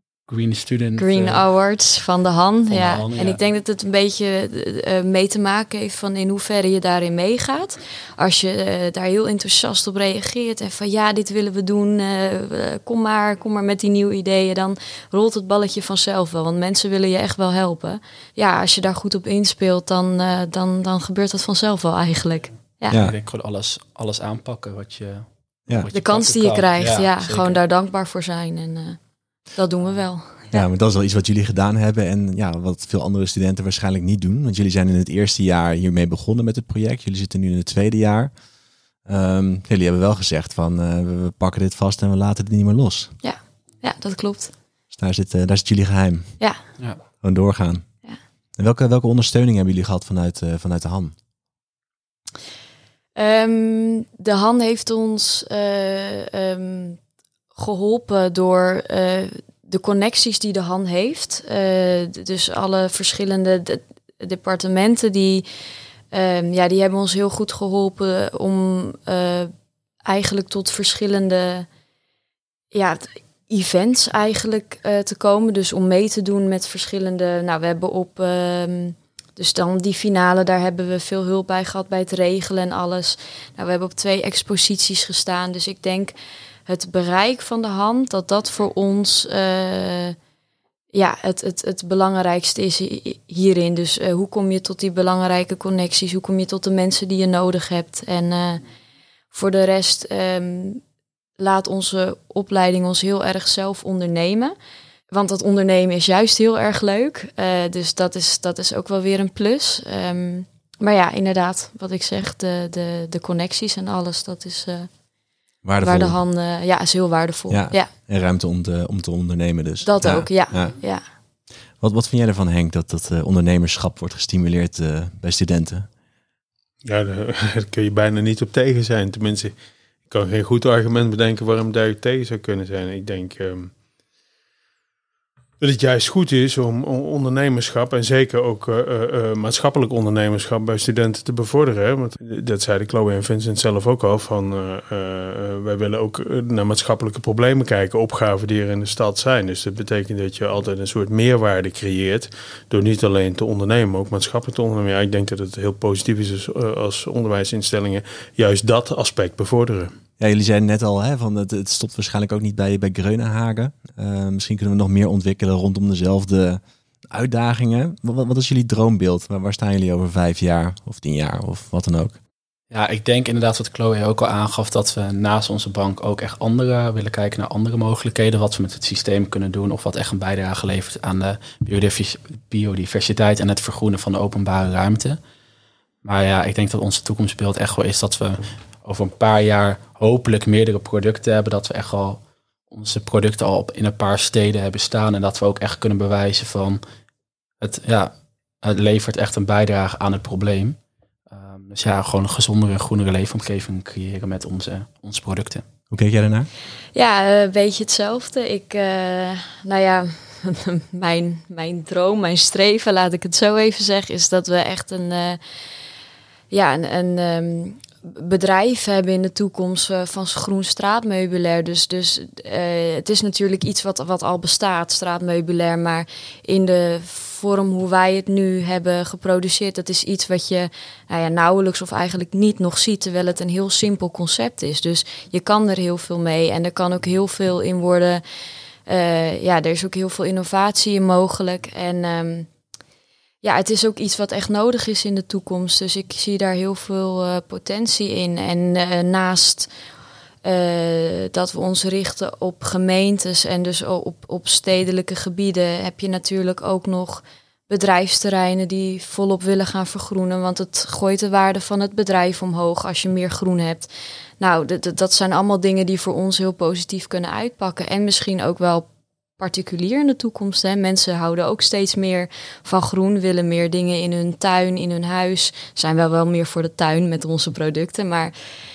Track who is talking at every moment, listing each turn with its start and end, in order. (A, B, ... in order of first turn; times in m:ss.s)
0:00.3-0:01.4 A
0:01.0-0:23.0 B
0:02.7-0:03.4 A
0:22.9-0:23.1 C
0:22.9-0:27.6 A
0:25.9-0:29.0 B
0:29.5-0:30.6 B
0:30.5-0:38.3 C
0:39.0-0:43.1 C
0:43.2-0:44.5 B
0:44.9-0:46.4 C
0:47.2-0:47.8 C
0:48.6-0:51.1 C
0:53.2-0:57.0 B
0:57.5-1:05.4 B
1:06.1-1:09.5 B
1:10.0-1:11.7 B
1:12.7-1:26.1 B
1:26.7-1:30.2 B
1:30.9-1:38.6 B
1:39.3-1:40.8 B
1:41.4-1:44.5 B
1:45.1-1:54.9 B
1:55.6-1:56.2 C
1:55.8-1:57.9 B
1:57.5-2:00.8 C
1:59.8-2:01.0 B
2:01.8-2:05.9 C
2:06.8-2:09.5 D
2:10.1-2:13.7 D
2:15.6-2:39.9 D
2:40.2-2:52.2 C
2:52.7-3:05.2 A
3:06.0-3:16.8 A
3:17.6-3:20.8 A
3:21.3-3:25.6 A
3:25.9-3:26.5 C
3:26.9-3:35.4 B
3:36.5-3:58.2 B
3:58.9-4:02.5 B
4:03.4-4:09.7 B
4:10.4-4:23.9 B
4:24.4-4:28.8 B
4:29.4-4:38.3 B